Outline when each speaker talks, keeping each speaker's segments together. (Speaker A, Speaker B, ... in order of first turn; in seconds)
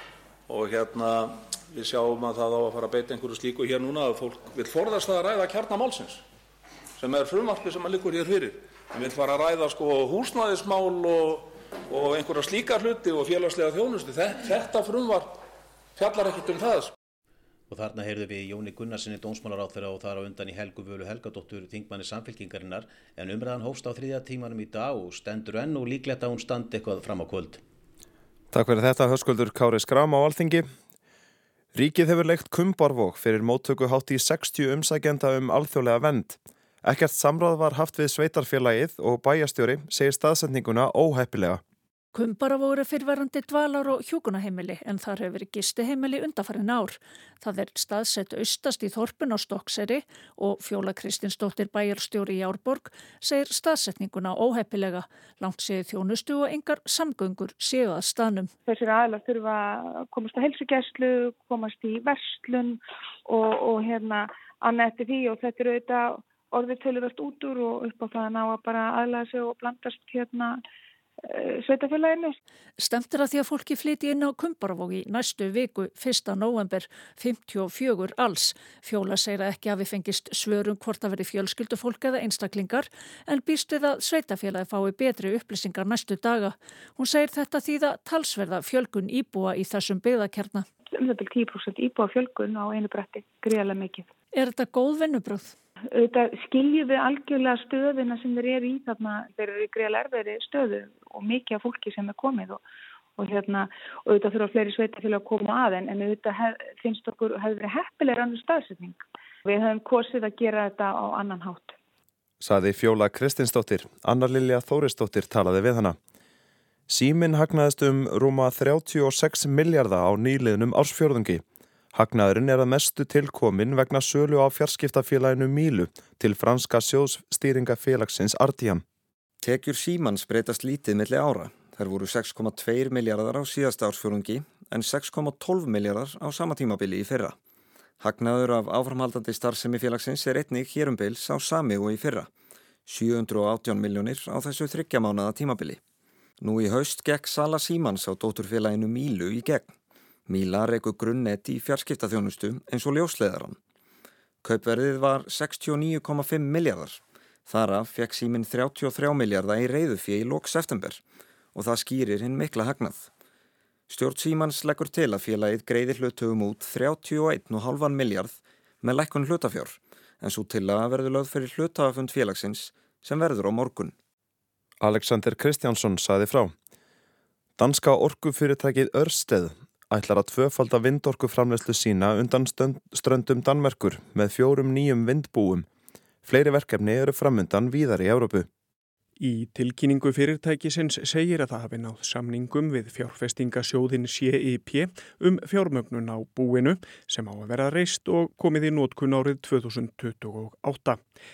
Speaker A: 0.5-6.2, 7.0-15.4, 16.0-16.9
Speaker B: 17.7-27.6
Speaker C: 28.5-30.7, 31.8-41.6, 112.4-116.0, 116.9-121.4, 121.9-128.8, 174.8-176.5, 177.6-185.7, 186.2-188.5
Speaker D: 42.1-58.5, 72.8-90.7, 94.3-95.5
Speaker E: 58.7-70.6, 71.2-72.4, 90.9-94.1, 95.9-102.6, 103.2-111.8
Speaker F: 129.4-137.4, 138.0-142.3, 142.9-145.8, 146.4-149.8, 150.3-153.6, 154.4-161.0, 161.5-163.1, 163.9-174.0
Speaker G: 189.2-201.0